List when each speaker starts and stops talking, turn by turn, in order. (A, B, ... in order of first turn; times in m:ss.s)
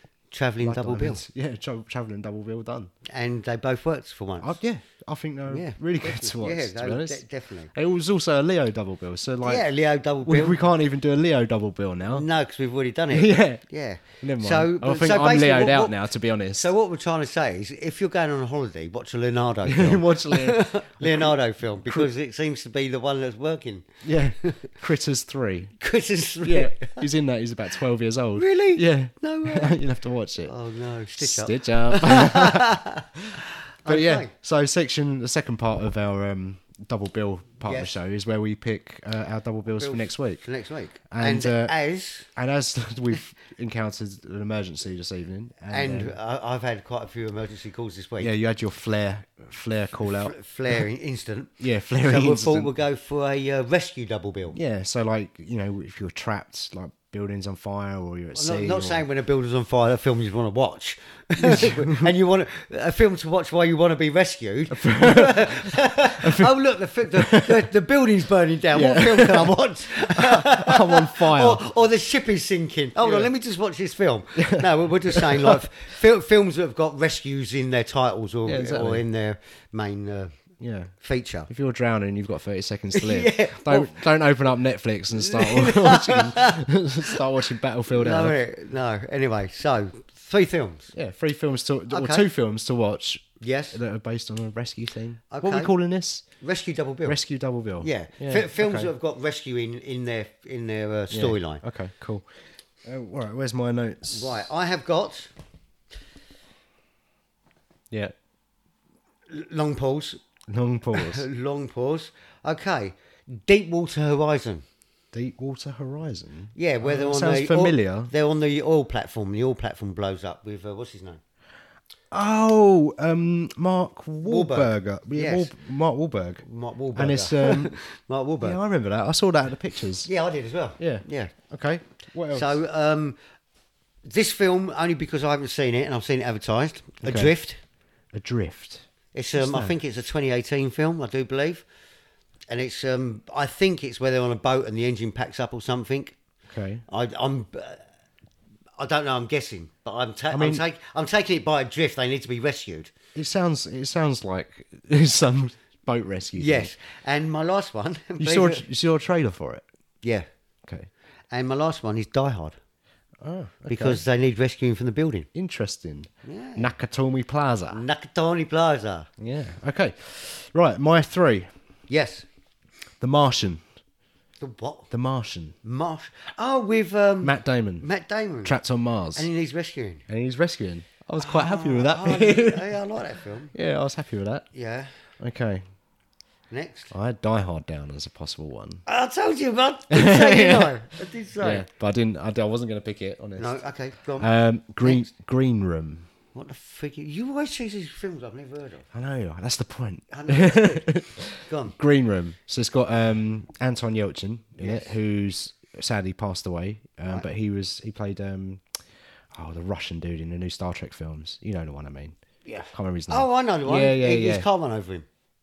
0:00.3-0:01.2 A
0:00.6-0:02.9 B
0:03.1-0:04.6 A
0:04.4-0:09.7 B
0:05.5-0:07.7 A
0:09.4-0:10.6 A
0:10.2-0:12.2 B
0:12.1-0:24.7 A
0:13.1-0:16.7 B
0:19.6-0:22.1 B
0:24.0-0:25.8 B
0:25.8-0:27.0 A
0:26.4-0:30.5 B
0:28.4-0:29.8 A
0:30.4-0:34.3 A
0:31.2-0:32.8 B
0:33.8-0:40.4 B
0:37.6-0:37.9 A
0:39.8-0:42.3 A
0:41.1-0:41.8 B
0:42.3-0:46.1 B
0:45.7-0:48.3 A
0:48.2-0:50.8 B
0:50.0-0:54.6 A
0:51.6-0:52.7 B
0:54.5-0:59.0 B
0:58.3-1:20.3 A
1:01.4-1:02.1 B
1:04.7-1:06.5 B
1:07.2-1:07.6 B
1:08.7-1:11.6 B
1:13.0-1:13.3 B
1:14.4-1:15.6 B
1:18.4-1:19.0 B
1:20.6-1:20.9 B
1:21.0-1:21.5 A
1:21.5-1:28.4 B
1:22.9-1:24.0 A
1:25.1-1:27.2 A
1:27.9-1:30.9 A
1:30.9-1:36.2 B
1:31.9-1:32.2 A
1:33.4-1:33.8 A
1:35.3-1:35.7 A
1:36.4-1:37.2 A
1:37.0-1:38.9 B
1:37.8-1:41.6 A
1:41.1-1:42.2 B
1:42.8-1:44.4 B
1:44.1-1:45.3 A
1:49.3-1:50.2 A
1:50.5-1:51.2 B
1:50.9-1:54.6 A
1:55.1-1:58.1 B
1:56.5-2:01.2 A
2:02.1-2:06.4 B
2:04.2-2:05.5 A
2:06.4-2:08.6 A
2:06.9-2:07.8 B
2:08.4-2:10.1 B
2:10.0-2:11.3 A
2:10.8-2:12.6 B
2:12.3-2:13.2 A
2:14.0-2:17.6 A
2:17.0-2:17.3 B
2:18.1-2:19.7 B
2:19.1-2:21.6 A
2:22.5-2:26.2 A
2:26.5-2:26.8 B
2:26.9-2:27.8 A
2:28.8-2:32.9 A
2:30.3-2:30.6 B
2:33.1-2:36.7 B
2:36.4-2:38.6 A
2:38.2-2:39.6 B
2:40.0-2:40.3 A
2:41.3-2:42.6 A
2:43.2-2:44.0 B
2:43.7-2:45.3 A
2:45.3-2:47.8 B
2:46.2-2:46.7 A
2:47.7-2:49.1 A
2:49.2-2:51.5 B
2:51.9-2:52.2 A
2:53.0-2:53.7 B
2:54.4-2:54.9 A
2:54.9-2:55.6 B
2:55.6-2:58.6 A
2:57.2-2:57.9 B
2:58.4-2:59.3 B
2:59.1-3:00.0 A
3:00.1-3:02.8 B
3:01.2-3:03.5 A
3:03.5-3:04.5 B
3:04.5-3:05.0 A
3:05.2-3:05.6 B
3:06.5-3:06.9 A
3:06.9-3:08.8 B
3:08.8-3:11.7 A
3:09.9-3:10.8 B
3:11.4-3:13.5 B
3:13.4-3:14.3 A
3:14.2-3:16.1 B
3:14.8-3:15.1 A
3:16.3-3:18.9 A
3:18.9-3:28.6 B
3:20.1-3:21.8 A
3:24.6-3:24.9 A
3:29.3-3:32.2 B
3:32.4-3:35.0 A
3:32.7-3:34.5 B